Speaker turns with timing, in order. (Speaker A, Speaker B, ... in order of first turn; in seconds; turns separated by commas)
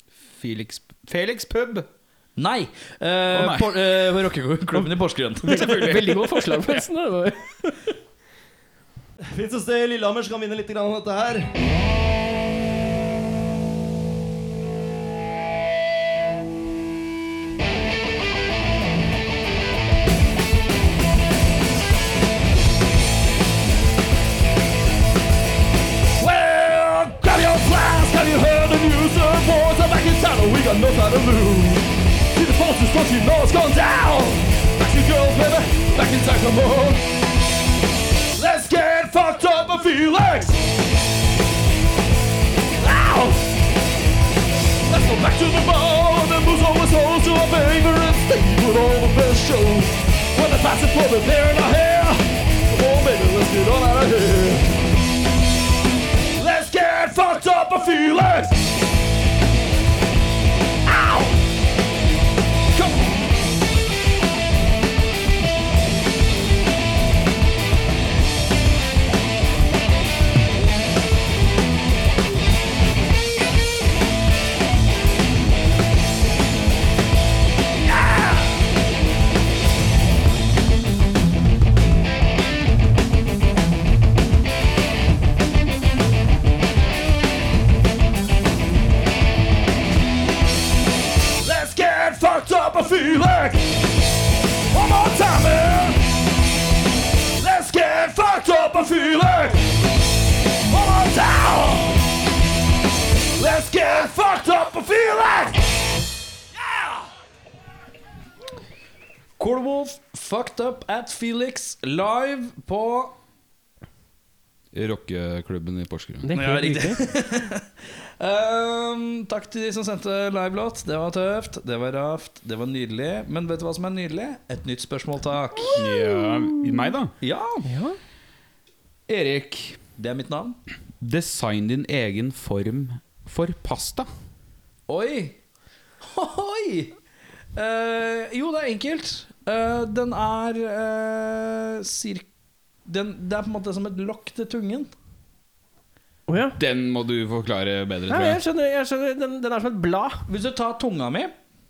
Speaker A: 0.3-1.9, Speaker B: 2.4-5.7, Speaker A: 3.3-3.7, Speaker C: 5.4-7.8, Speaker A: 5.5-6.8, Speaker D: 9.3-11.5, Speaker E: 26.2-37.1, Speaker E: 38.4-40.6, Speaker E: 42.8-43.5, Speaker E: 44.9-54.8, Speaker E: 56.4-58.6, Speaker E: 60.9-61.4, Speaker E: 62.8-63.1, Speaker E: 91.4-93.8, Speaker E: 94.7-96.0, Speaker E: 97.4-99.7, Speaker E: 100.7-102.0, Speaker E: 103.4-105.6, Speaker B: 109.4-113.2, Speaker A: 114.7-116.3, Speaker C: 116.2-117.0, Speaker B: 116.3-125.8, Speaker C: 125.6-126.9, Speaker A: 125.8-127.1, Speaker B: 127.2-127.7, Speaker C: 127.7-128.0, Speaker A: 129.1-129.8, Speaker B: 130.0-130.6, Speaker A: 131.0-134.1, Speaker B: 134.9-135.4, Speaker B: 136.0-136.9, Speaker B: 137.6-142.2, Speaker B: 142.8-144.9, Speaker C: 146.3-146.6, Speaker A: 146.6-148.4, Speaker C: 148.1-150.2, Speaker B: 150.3-151.3